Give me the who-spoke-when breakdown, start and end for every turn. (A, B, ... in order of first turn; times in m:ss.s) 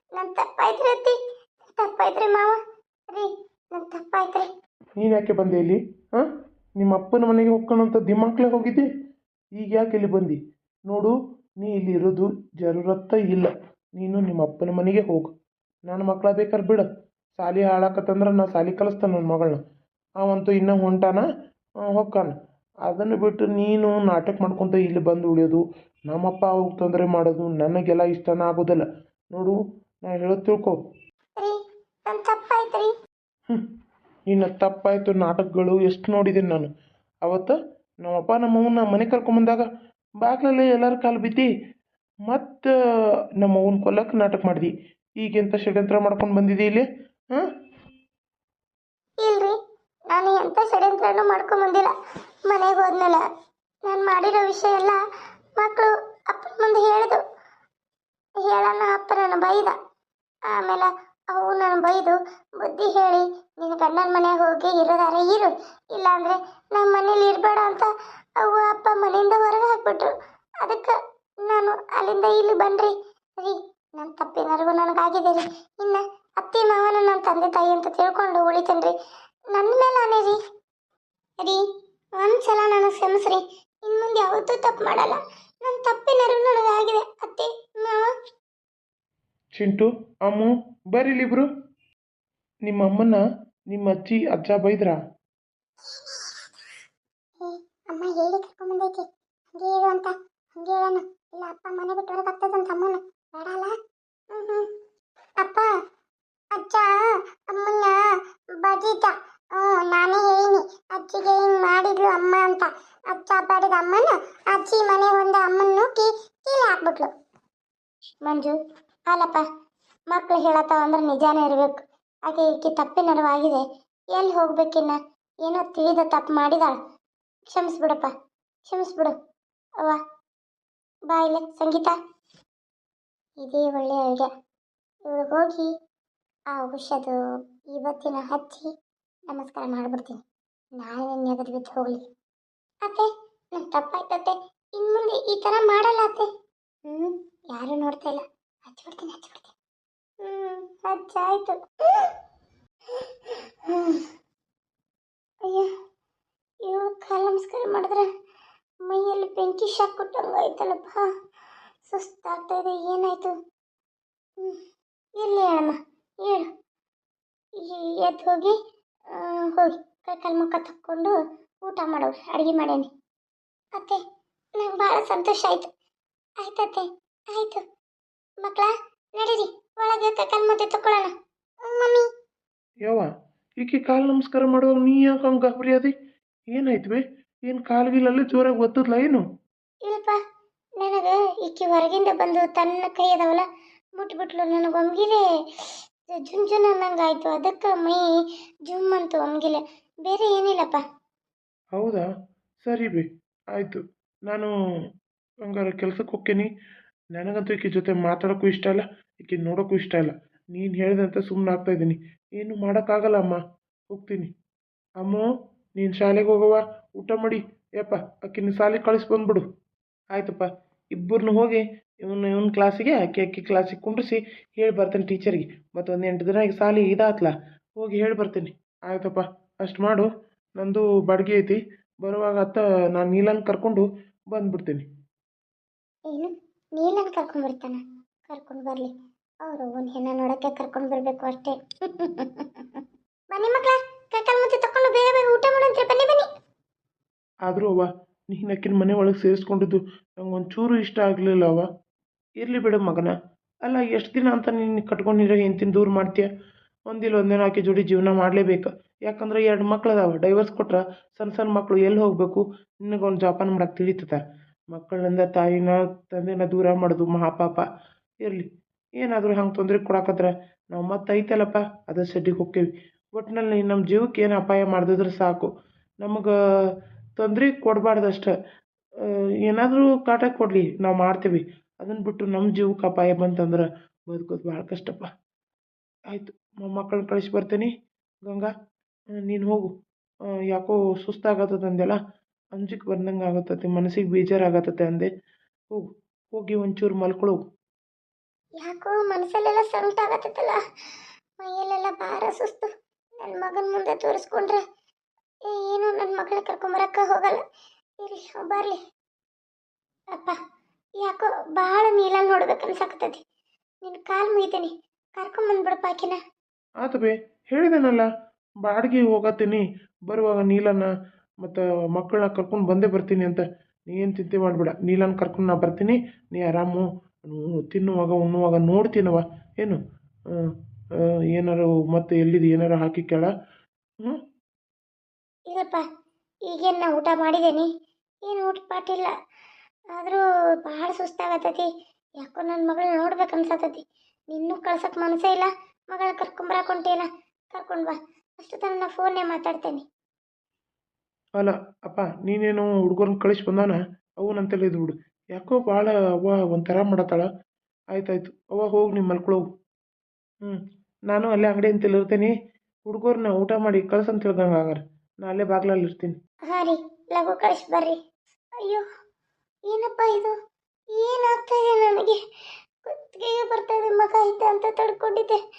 0:00.2-0:01.2 A
0:01.8-0:02.6 A
0:03.1-0:04.5 A
0:05.0-0:06.2 B
0:06.8-0:08.9 B
0:09.6-0:10.4 B
0:10.9-0:15.3 B
0:15.9-0:19.6 B
0:20.2-0:21.3 B
0:21.9-0:22.3 B
0:22.9-0:30.8 B
0:31.4-0:32.9 A
0:34.3-0:36.7 B
0:37.2-0:39.6 B
0:40.2-0:41.5 B
0:42.3-0:42.7 B
0:43.4-0:47.4 B
0:49.2-0:49.5 A
0:50.1-0:51.9 A
0:52.4-0:53.2 A
0:53.8-0:55.0 A
0:55.6-0:57.2 A
0:58.4-0:59.8 A
1:00.5-1:07.9 A
1:08.4-1:18.9 A
1:19.5-1:20.4 A
1:22.2-1:28.1 A
1:29.5-1:31.5 B
1:32.7-1:33.2 B
1:33.7-1:35.0 B
1:37.4-1:39.0 A
1:39.6-1:43.7 A
1:44.3-1:44.6 A
1:45.4-1:45.7 A
1:46.5-1:46.9 A
1:47.5-1:48.0 A
1:48.6-1:57.1 A
1:58.2-1:58.6 A
1:59.1-1:59.4 A
2:00.1-2:03.6 A
2:04.1-2:06.8 A
2:07.5-2:08.1 A
2:08.6-2:09.1 A
2:11.1-2:11.9 A
2:13.4-2:14.3 A
2:15.1-2:15.7 A
2:16.5-2:17.2 A
2:17.7-2:18.7 A
2:19.3-2:20.2 A
2:20.8-2:22.0 A
2:22.8-2:26.3 A
2:26.9-2:29.5 A
2:30.2-2:32.2 A
2:32.9-2:34.0 A
2:35.4-2:35.7 A
2:36.6-2:38.1 A
2:38.8-2:41.0 A
2:41.9-2:43.3 A
2:45.2-2:46.5 A
2:47.6-2:48.6 A
2:49.1-2:52.9 A
2:54.6-2:55.7 A
2:56.4-2:57.6 A
2:58.4-3:01.1 A
3:01.6-3:02.1 A
3:03.6-3:05.9 B
3:06.5-3:09.2 B
3:09.8-3:10.2 A
3:10.8-3:13.4 A
3:14.0-3:15.2 A
3:16.1-3:18.0 A
3:18.7-3:20.8 A
3:21.8-3:22.0 B
3:22.6-3:23.0 B
3:23.6-3:24.5 B
3:25.5-3:26.5 B
3:27.2-3:33.4 B
3:33.9-3:34.3 B
3:35.0-3:35.2 B
3:35.8-3:39.4 B
3:40.1-3:40.4 B
3:41.0-3:50.1 B
3:50.6-3:54.8 B
3:56.1-3:58.9 A
3:59.4-4:02.8 A
4:03.3-4:06.3 A
4:07.5-4:11.6 B
4:12.4-4:13.1 B
4:13.6-4:16.3 B
4:16.9-4:24.2 B
4:24.7-4:27.6 B
4:29.0-4:35.5 B
4:36.0-4:36.3 B
4:37.2-4:38.3 B
4:39.4-4:45.0 B
4:46.1-4:47.7 B
4:49.2-4:49.7 B
4:50.5-4:52.0 B
4:52.6-4:55.1 B
4:56.4-4:57.4 B
4:58.6-5:00.6 A
5:01.4-5:02.7 A
5:03.2-5:04.6 A
5:05.5-5:07.4 A
5:08.0-5:08.8 A
5:11.0-5:13.2 A
5:13.8-5:16.2 A
5:16.8-5:18.1 B
5:18.6-5:20.9 B
5:21.4-5:29.8 B
5:31.3-5:33.3 B
5:35.5-5:35.8 A
5:36.5-5:37.7 A
5:38.2-5:39.1 A
5:39.9-5:41.7 A
5:42.2-5:49.8 A
5:51.4-5:57.3 B
5:57.9-5:59.4 B
6:01.1-6:02.3 B
6:02.9-6:06.2 B
6:06.5-6:08.0 A
6:08.6-6:08.8 A
6:09.7-6:10.3 A
6:10.9-6:12.2 A
6:12.8-6:15.4 A